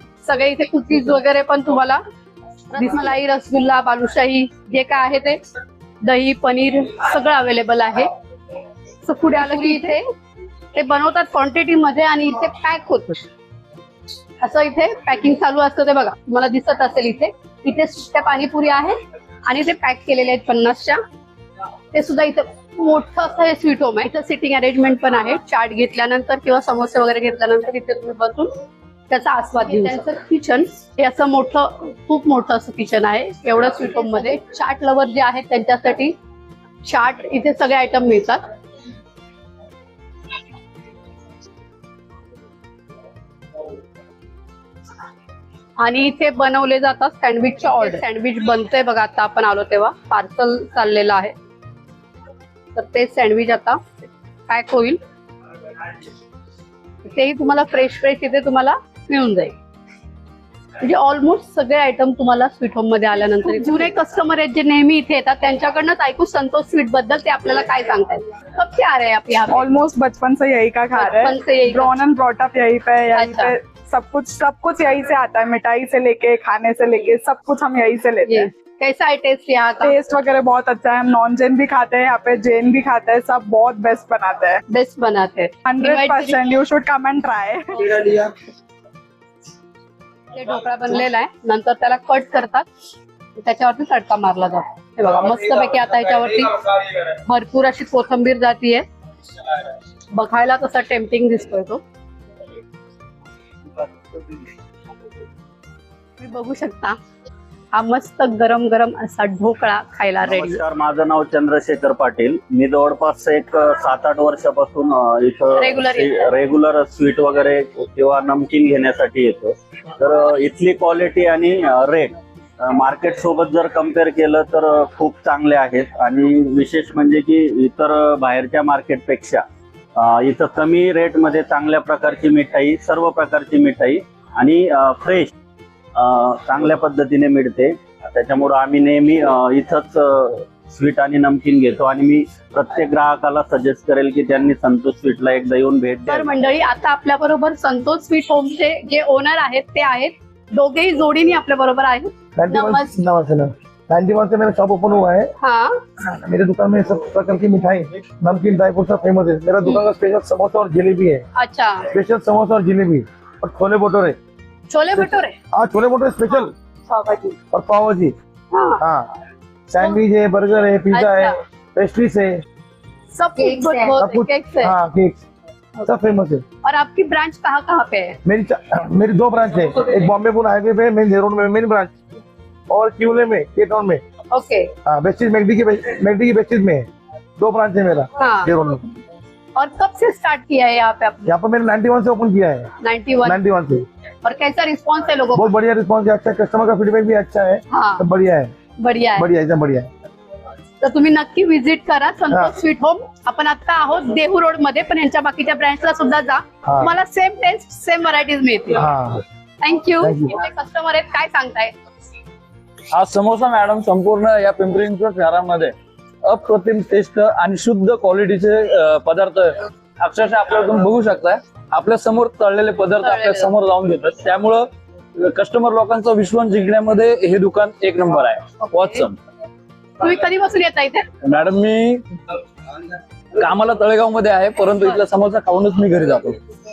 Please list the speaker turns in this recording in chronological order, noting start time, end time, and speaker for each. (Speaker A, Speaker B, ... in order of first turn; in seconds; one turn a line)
Speaker A: 0.2-2.0
Speaker A: 2.7-5.4
Speaker A: 6.0-8.1
Speaker A: 9.1-10.0
Speaker B: 9.4-9.8
Speaker A: 10.7-13.3
Speaker A: 14.4-18.9
Speaker A: 19.5-21.0
Speaker A: 21.9-28.5
Speaker A: 29.1-36.1
Speaker A: 36.9-38.4
Speaker A: 45.8-51.3
Speaker A: 52.8-53.8
Speaker A: 54.5-55.0
Speaker A: 57.0-59.5
Speaker A: 60.8-69.7
Speaker B: 63.4-63.9
Speaker B: 69.5-78.5
Speaker A: 71.0-71.9
Speaker A: 73.1-73.5
Speaker A: 78.3-80.0
Speaker B: 79.8-84.6
Speaker A: 84.7-86.4
Speaker B: 85.7-87.8
Speaker A: 87.8-88.1
Speaker A: 90.3-92.7
Speaker A: 93.4-98.8
Speaker A: 100.1-101.8
Speaker A: 106.2-107.0
Speaker A: 107.7-110.6
Speaker C: 110.2-129.4
Speaker A: 115.5-116.3
Speaker C: 130.0-135.3
Speaker C: 136.0-146.3
Speaker A: 146.1-152.9
Speaker D: 152.4-155.3
Speaker A: 155.4-155.8
Speaker D: 156.1-161.2
Speaker A: 161.4-161.9
Speaker D: 161.9-164.2
Speaker A: 164.7-165.3
Speaker D: 165.5-166.5
Speaker A: 166.9-167.4
Speaker D: 167.5-168.1
Speaker A: 168.5-168.8
Speaker D: 168.8-169.1
Speaker D: 169.7-172.4
Speaker A: 170.9-171.4
Speaker A: 173.1-174.7
Speaker D: 174.0-175.2
Speaker D: 175.8-176.4
Speaker A: 176.6-178.2
Speaker D: 178.2-181.9
Speaker D: 182.7-184.0
Speaker A: 184.3-184.7
Speaker D: 184.8-188.9
Speaker A: 188.2-188.5
Speaker A: 189.6-191.3
Speaker D: 191.2-192.7
Speaker A: 192.8-193.4
Speaker D: 193.2-193.9
Speaker A: 194.2-195.5
Speaker D: 195.3-198.5
Speaker A: 197.7-198.1
Speaker A: 198.8-199.3
Speaker D: 199.2-199.9
Speaker A: 200.8-208.8
Speaker D: 202.3-202.6
Speaker D: 206.7-206.9
Speaker D: 208.8-209.2
Speaker A: 209.6-211.7
Speaker D: 210.0-210.4
Speaker E: 212.9-229.2
Speaker A: 223.0-223.5
Speaker A: 228.7-229.0
Speaker A: 230.0-231.0
Speaker E: 231.2-232.0
Speaker E: 233.4-236.4